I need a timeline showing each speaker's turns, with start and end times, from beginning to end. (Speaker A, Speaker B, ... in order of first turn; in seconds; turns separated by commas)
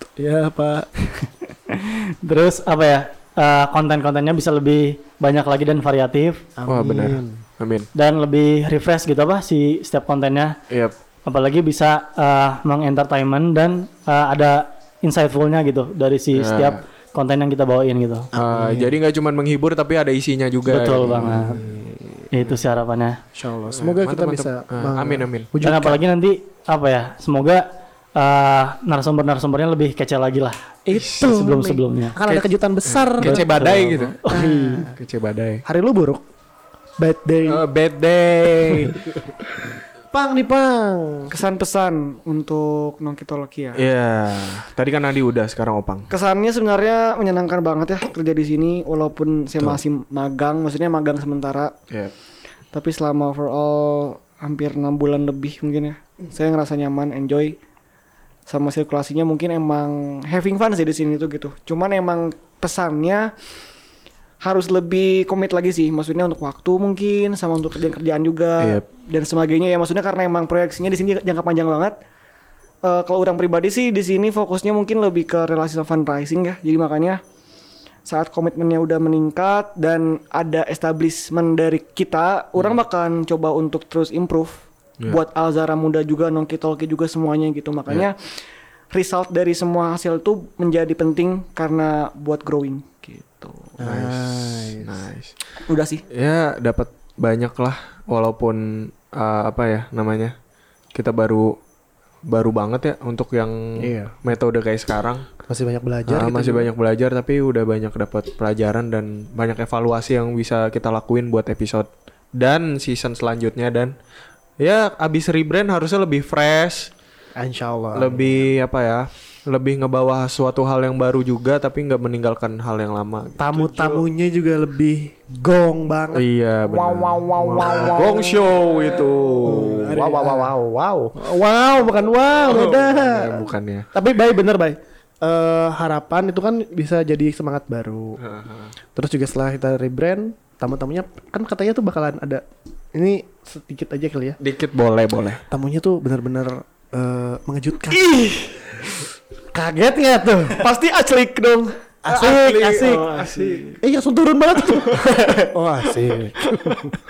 Speaker A: 0.2-0.9, Speaker B: 1.1-6.5, Speaker A: 6.6-7.4, Speaker C: 6.7-7.9, Speaker B: 7.9-10.6, Speaker C: 10.7-10.9, Speaker B: 11.2-18.3, Speaker C: 16.3-16.8, Speaker A: 18.3-18.9, Speaker C: 18.4-21.7, Speaker B: 20.7-21.6, Speaker A: 21.2-22.1, Speaker B: 22.3-23.2, Speaker A: 23.3-26.0, Speaker C: 23.7-25.5, Speaker B: 25.6-30.6, Speaker A: 30.9-33.5, Speaker C: 30.9-31.3, Speaker B: 31.2-32.2, Speaker C: 32.2-34.4, Speaker B: 33.2-34.8, Speaker A: 34.2-35.0, Speaker C: 34.9-35.6, Speaker A: 35.6-36.2, Speaker A: 37.0-37.6, Speaker C: 37.5-39.1, Speaker A: 40.1-41.3, Speaker D: 41.3-43.8, Speaker C: 43.8-46.1, Speaker D: 46.1-51.7, Speaker D: 52.7-57.6, Speaker D: 58.5-63.3, Speaker D: 64.4-72.0, Speaker C: 68.6-68.8, Speaker D: 72.8-77.2, Speaker D: 78.0-88.2, Speaker D: 88.9-93.7, Speaker A: 93.8-95.0, Speaker C: 93.8-95.3, Speaker D: 95.7-96.0, Speaker C: 96.1-100.3, Speaker C: 100.9-101.6, Speaker C: 102.3-105.3, Speaker A: 103.8-104.2, Speaker A: 105.5-106.7, Speaker C: 106.1-113.9, Speaker C: 114.6-116.9, Speaker A: 117.3-118.5, Speaker C: 117.9-124.0, Speaker A: 123.4-126.2, Speaker C: 126.1-131.2, Speaker A: 127.4-128.1, Speaker D: 127.7-128.2, Speaker A: 129.4-130.5, Speaker A: 131.1-138.2, Speaker C: 132.4-133.9, Speaker C: 138.2-138.7, Speaker A: 138.9-142.4, Speaker A: 142.9-144.4, Speaker C: 144.4-145.4, Speaker A: 145.5-148.1, Speaker D: 147.9-148.8, Speaker A: 149.5-150.6, Speaker D: 150.6-153.8, Speaker A: 152.0-153.1, Speaker C: 152.1-153.8, Speaker A: 153.8-155.0, Speaker D: 154.8-155.5, Speaker A: 155.5-156.9